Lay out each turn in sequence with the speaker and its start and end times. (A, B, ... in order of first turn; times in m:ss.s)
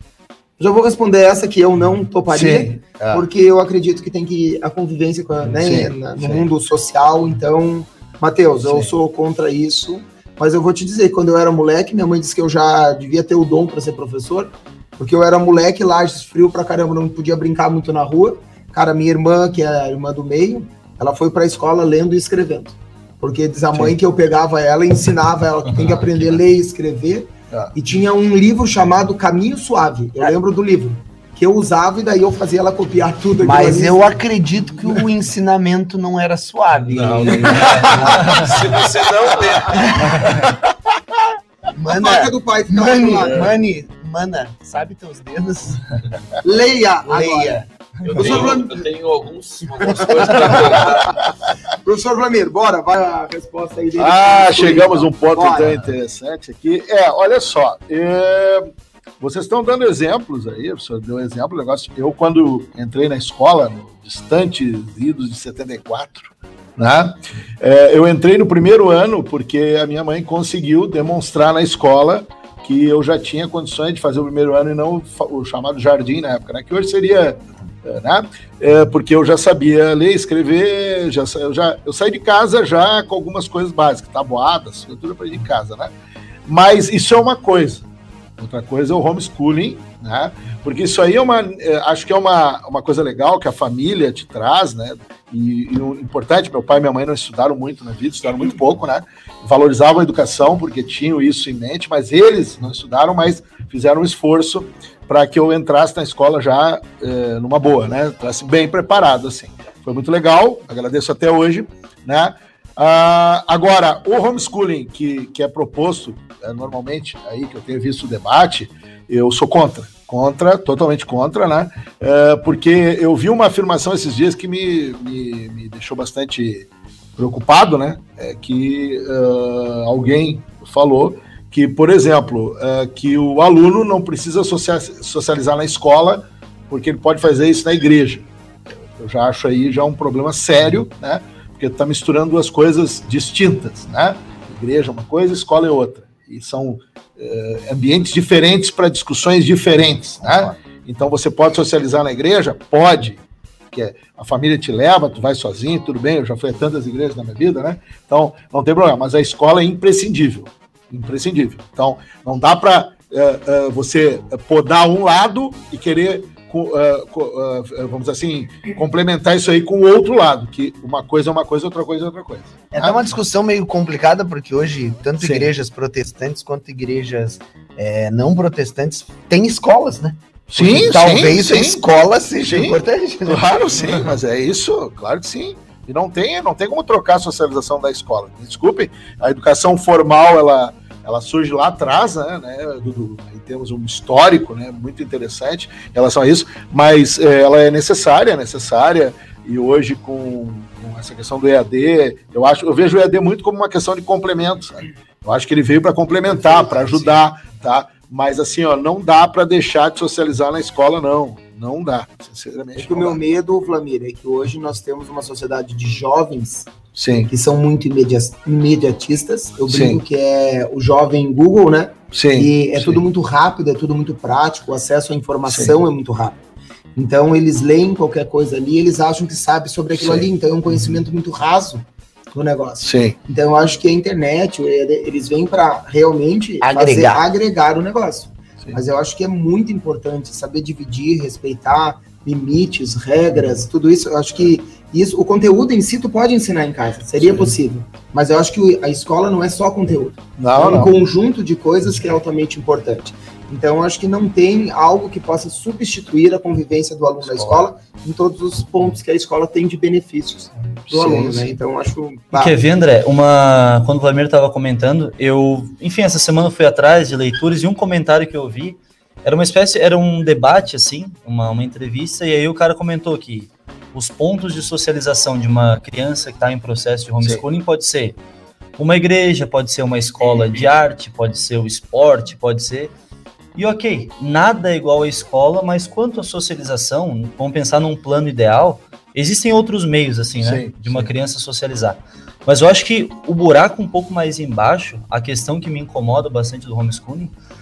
0:00.6-0:34.2 A
0:02.3-0:03.2 B
0:05.4-0:06.5 B
0:08.6-0:08.9 B
0:33.4-0:38.6 C
0:34.8-0:35.0 A
0:36.9-0:39.9 D
0:37.2-0:38.2 B
0:37.6-0:38.2 A
0:39.6-0:40.5 C
0:41.7-0:46.0 C
0:41.9-0:43.5 A
0:46.4-0:47.6 A
0:47.0-0:47.7 C
0:48.0-0:51.2 D
0:48.2-0:48.9 A
0:49.9-0:50.8 A
0:51.8-0:55.9 A
0:54.0-0:58.7 B
0:59.2-1:25.9 B
1:26.5-1:27.9 B
1:28.4-2:18.3 B
2:19.0-2:53.1 B
2:52.7-3:03.6 C
2:55.2-2:55.5 B
3:00.5-3:01.8 B
3:02.4-3:33.2 B
3:26.3-3:27.1 A
3:32.8-3:36.7 A
3:36.9-3:37.3 B
3:37.3-3:46.4 A
3:39.7-3:40.0 B
3:42.1-3:43.0 B
3:45.5-3:45.8 B
3:47.0-4:22.6 A
3:49.9-3:51.0 B
3:52.8-3:53.2 B
3:56.6-3:57.2 C
4:07.2-4:07.6 B
4:10.4-4:11.0 B
4:17.2-4:17.7 B
4:20.9-4:21.5 B
4:22.3-4:38.2 E
4:38.8-4:42.9 E
4:40.4-4:40.6 D
4:43.6-4:57.3 E
4:50.4-4:51.1 B